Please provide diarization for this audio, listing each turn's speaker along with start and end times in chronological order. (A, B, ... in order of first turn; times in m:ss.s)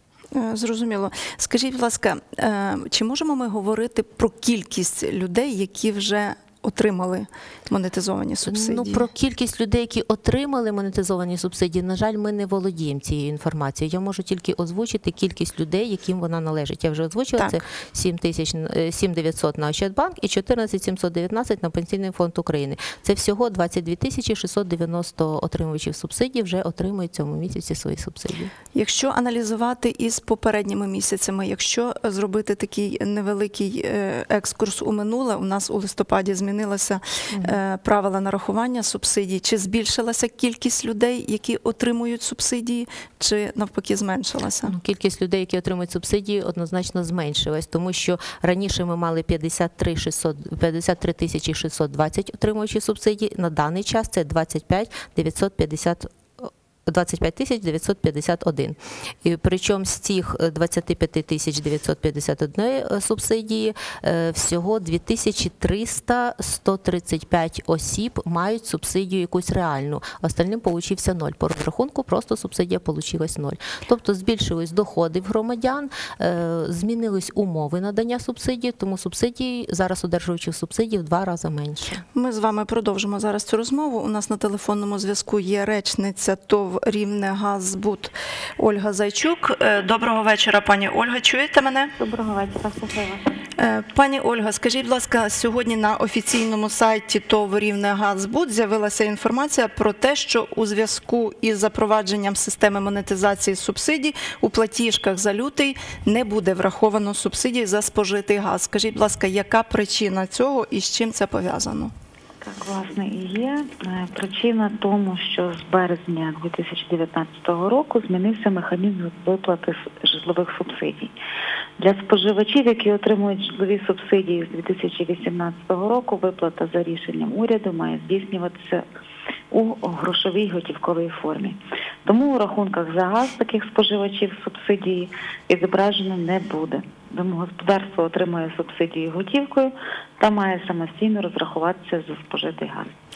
0:00.3-0:09.1 A
0:08.5-0:28.5 B
0:17.4-0:17.6 A
0:28.7-0:44.8 A
0:37.3-0:37.6 B
0:44.6-1:22.0 B
1:22.2-1:31.9 A
1:32.0-1:33.3 C
1:33.6-1:51.9 A
1:52.4-2:01.1 C
2:01.8-2:08.8 C
2:09.5-2:23.0 C